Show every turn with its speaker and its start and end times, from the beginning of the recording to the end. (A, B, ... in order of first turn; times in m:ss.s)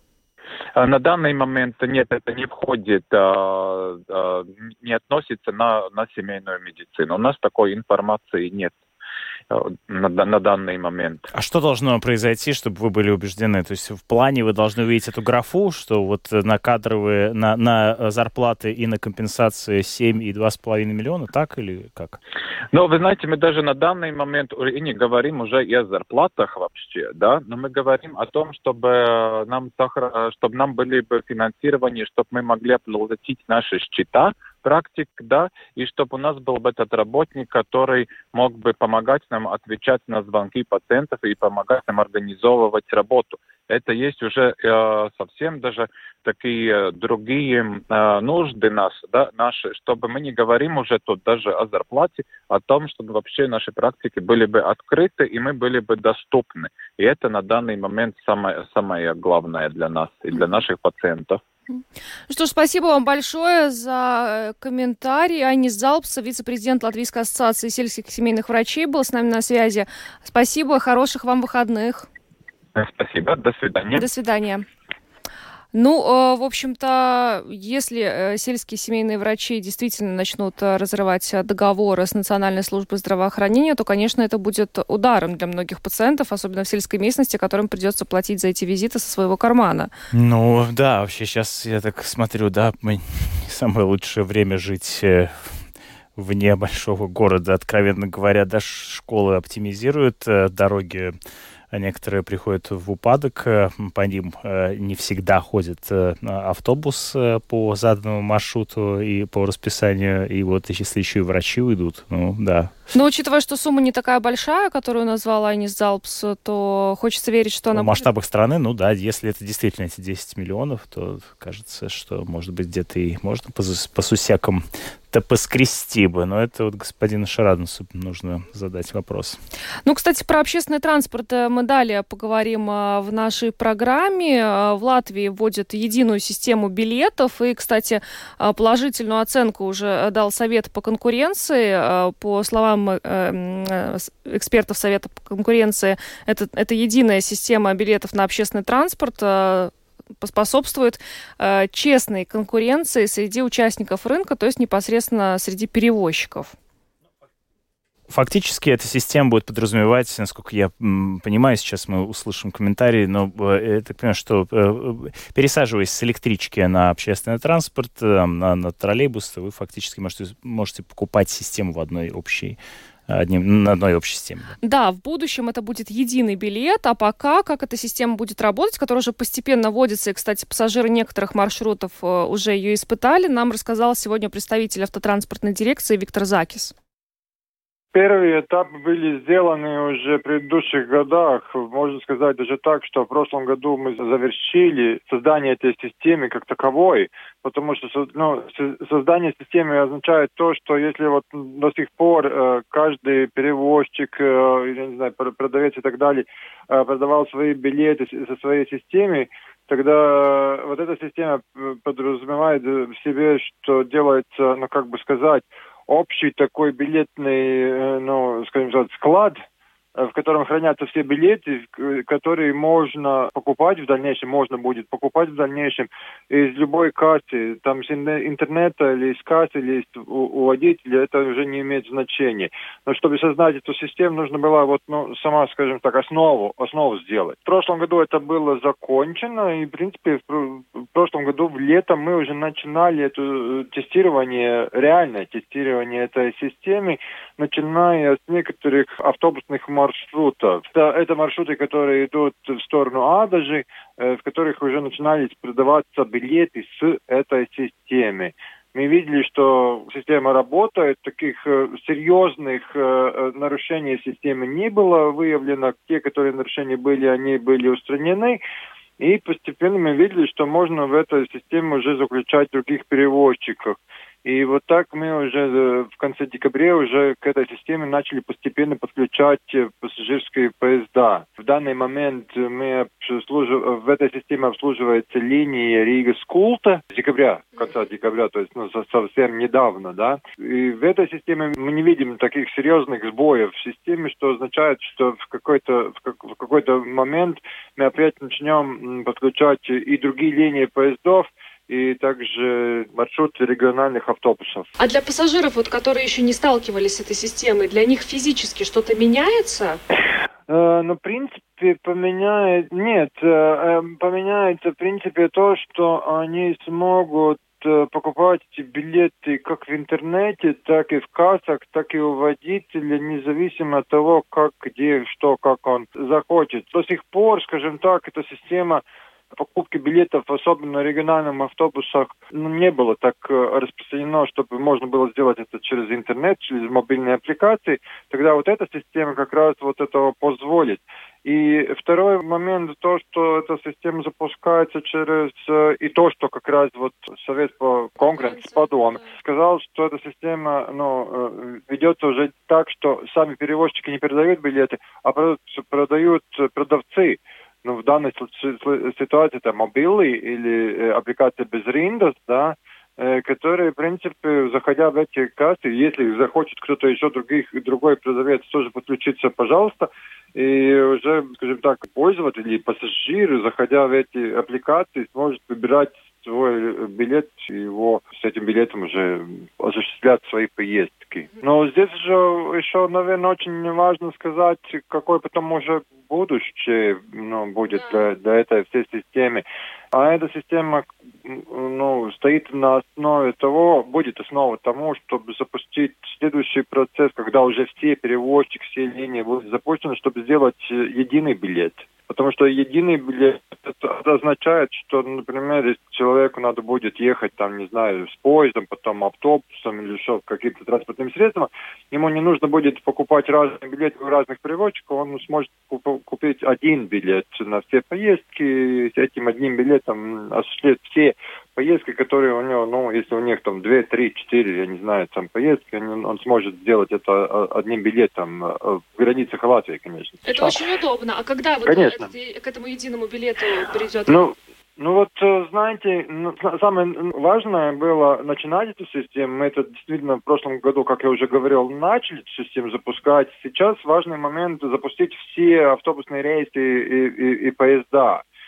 0:00.8-0:08.8 A
0:09.5-0:11.3 A
0:11.3-0:22.2 B
0:22.7-1:01.4 A
1:01.7-1:12.1 C
1:12.8-1:14.1 A
1:14.0-1:14.6 C
1:15.7-1:29.9 C
1:30.1-1:35.6 B
1:36.2-1:41.2 B
1:41.7-1:52.8 B
1:52.9-1:58.1 C
1:57.7-2:09.4 B
2:09.8-2:36.6 C
2:38.1-2:52.6 B
2:53.1-2:54.6 B
2:54.6-3:06.7 C
3:07.9-3:39.4 D
3:40.0-4:28.4 D
4:29.0-5:04.7 D
5:04.8-5:09.8 C
5:10.5-7:10.6 D
5:48.0-5:49.0 C
7:10.3-7:14.2 C
7:11.7-7:12.1 D
7:14.1-7:28.2 D